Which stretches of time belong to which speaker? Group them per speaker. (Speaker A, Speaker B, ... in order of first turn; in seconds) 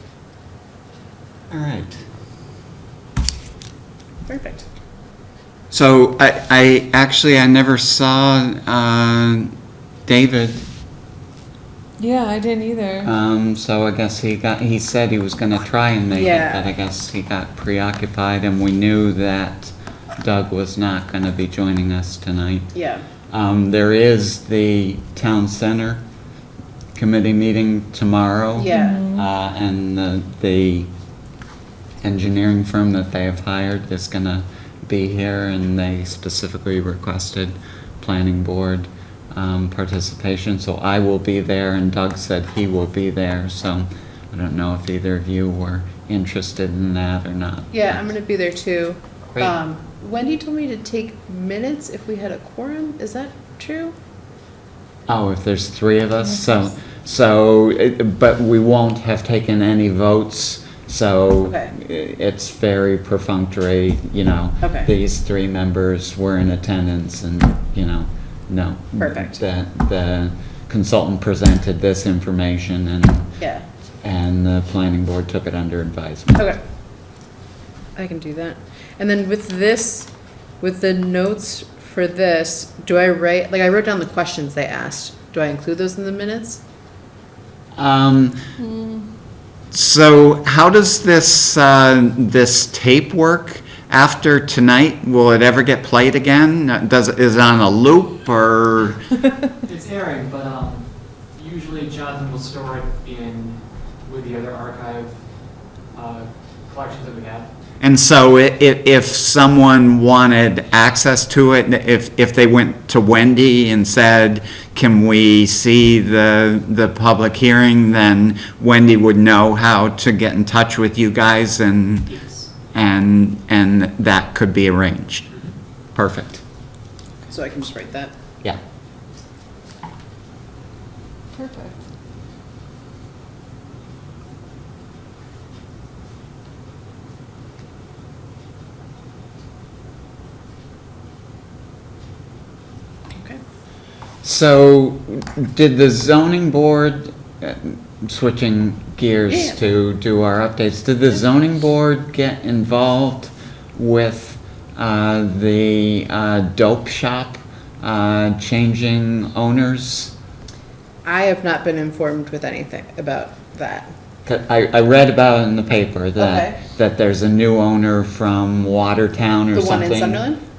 Speaker A: 1.5-2.0, 5.7-9.5, 10.1-10.7, 13.0-22.7, 23.3-26.0, 26.9-30.9, 32.0-48.1, 55.1-73.3, 74.0-76.5, 87.8-88.4, 89.7-99.0, 107.8-125.3, 126.0-126.4, 144.2-160.1, 164.2-170.2
Speaker B: 4.3-4.7, 16.1-16.6, 22.7-23.1, 28.6-29.0, 47.7-54.0, 61.5-61.7, 64.6-64.9, 69.0-69.4, 73.4-73.6, 78.0-86.6, 127.3-128.1, 149.3-149.6, 161.0-163.9, 166.2-166.6, 169.5-170.4
Speaker C: 12.0-13.1, 28.7-29.3, 88.6-89.1, 131.3-131.8
Speaker D: 99.7-107.5, 122.1-122.5